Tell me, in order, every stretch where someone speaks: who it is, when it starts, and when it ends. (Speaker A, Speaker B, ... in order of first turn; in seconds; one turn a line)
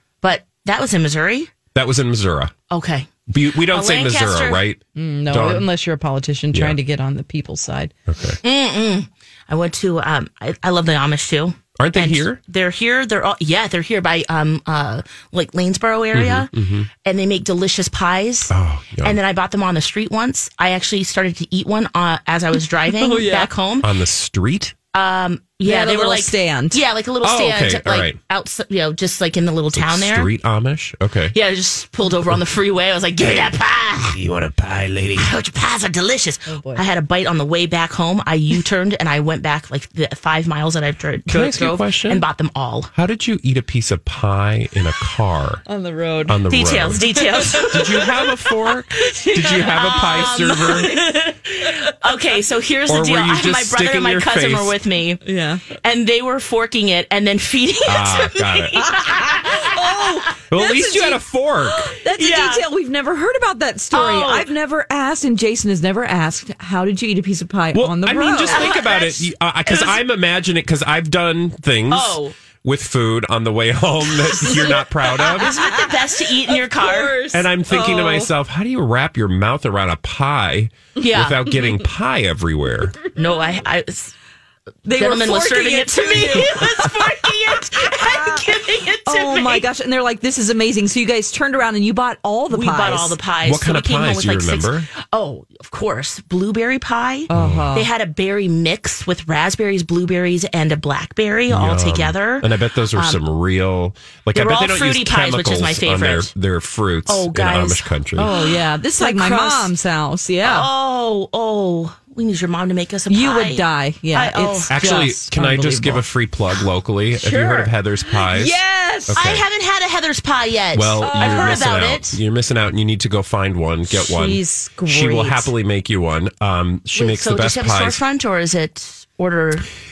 Speaker A: 0.2-1.5
Speaker B: 1.7-2.5
Speaker A: 2.7-4.6
Speaker B: 3.3-5.7
Speaker C: 4.9-7.9
Speaker B: 6.5-6.8
Speaker B: 8.1-8.4
Speaker A: 8.4-16.5
Speaker B: 11.8-12.4
Speaker B: 16.1-16.9
Speaker A: 17.0-23.9
Speaker B: 18.5-19.2
Speaker C: 22.9-23.5
Speaker B: 23.8-24.7
Speaker A: 24.9-30.3
Speaker C: 25.6-26.8
Speaker B: 27.2-28.2
Speaker B: 29.7-31.4
Speaker A: 31.3-34.2
Speaker B: 34.1-35.3
Speaker A: 35.1-42.9
Speaker C: 36.5-36.8
Speaker B: 41.2-42.3
Speaker B: 42.9-45.6
Speaker C: 45.6-47.8
Speaker B: 46.3-47.1
Speaker A: 46.5-55.2
Speaker B: 47.6-51.0
Speaker B: 52.9-54.7
Speaker C: 55.2-55.6
Speaker A: 55.8-60.2
Speaker B: 57.9-58.9
Speaker C: 59.4-61.2
Speaker B: 60.5-61.9
Speaker C: 61.9-68.7
Speaker A: 62.1-62.7
Speaker A: 63.9-64.5
Speaker B: 67.7-75.5
Speaker A: 68.4-70.0
Speaker A: 71.9-72.3
Speaker A: 74.3-77.2
Speaker C: 75.4-78.3
Speaker B: 77.3-83.0
Speaker A: 81.0-81.4
Speaker A: 83.1-84.1
Speaker C: 84.8-87.0
Speaker A: 84.9-89.7
Speaker C: 87.9-93.2
Speaker A: 92.5-103.2
Speaker B: 93.4-94.9
Speaker C: 97.3-97.9
Speaker B: 97.3-97.8
Speaker B: 101.5-108.3
Speaker A: 104.3-106.3
Speaker A: 107.1-109.7
Speaker C: 108.2-110.7
Speaker A: 110.4-115.1
Speaker C: 113.1-116.0
Speaker B: 114.7-119.5
Speaker C: 117.2-119.3
Speaker A: 119.1-122.2
Speaker B: 120.7-128.0
Speaker C: 121.0-121.7
Speaker C: 123.9-125.5
Speaker A: 126.9-129.7